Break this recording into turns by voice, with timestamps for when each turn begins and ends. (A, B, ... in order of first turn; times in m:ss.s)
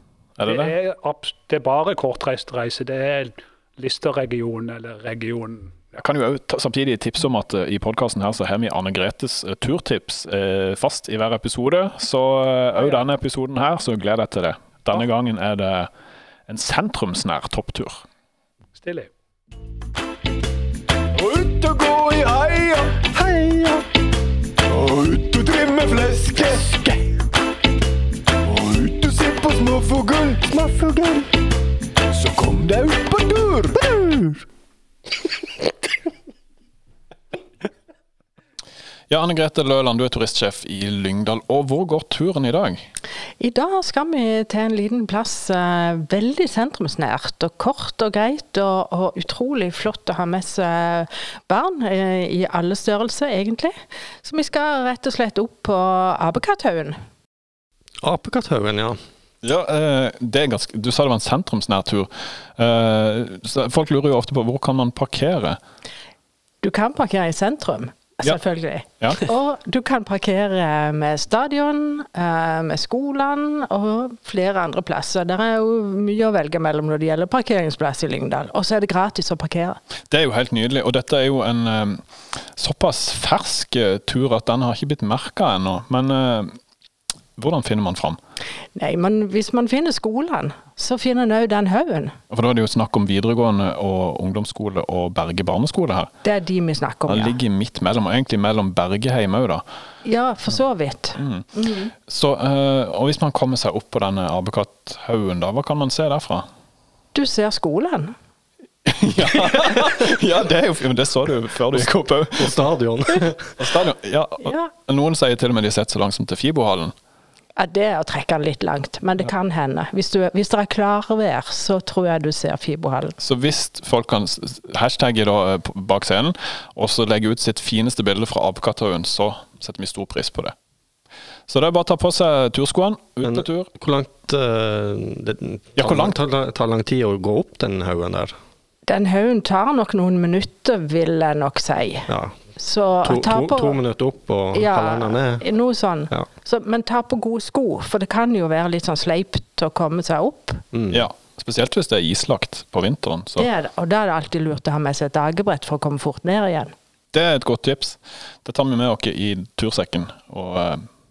0:00.4-0:00.8 A
0:00.4-0:05.9 B
0:06.0-0:15.9 A
0:12.8-0:13.0 B
0:16.5-0:18.0 A
0:18.8-0:19.1 B
0:21.1-0:23.6 C
0:24.7-0:27.1 C
0:28.4-0:31.2 C
0:32.2-0:34.4 C
0:39.1-0:42.9 A
0:43.4-0:57.0 D
0:58.0-0:59.0 E
0:59.4-1:05.6 A
1:06.6-1:19.8 D
1:20.1-1:26.6 A
1:27.4-1:28.2 A
1:28.8-1:32.2 D
1:32.3-1:36.1 A
1:36.2-1:37.4 D
1:37.1-1:39.6 A
1:40.0-1:41.9 D
1:41.2-1:41.5 A
1:42.0-1:46.5 A
1:47.1-1:48.2 D
1:48.9-1:52.6 A
1:49.5-1:49.9 D
1:51.7-1:53.6 E
1:53.6-1:56.9 A
1:54.4-1:54.7 D
1:57.6-2:03.2 D
2:03.2-2:10.6 A
2:11.5-2:13.7 A
2:13.2-2:18.4 E
2:15.8-2:16.2 A
2:18.9-2:23.8 D
2:22.1-2:22.5 E
2:23.0-2:25.4 E
2:24.5-2:30.6 D
2:30.7-2:31.1 E
2:30.9-2:33.5 A
2:33.4-2:36.7 D
2:37.1-2:40.9 A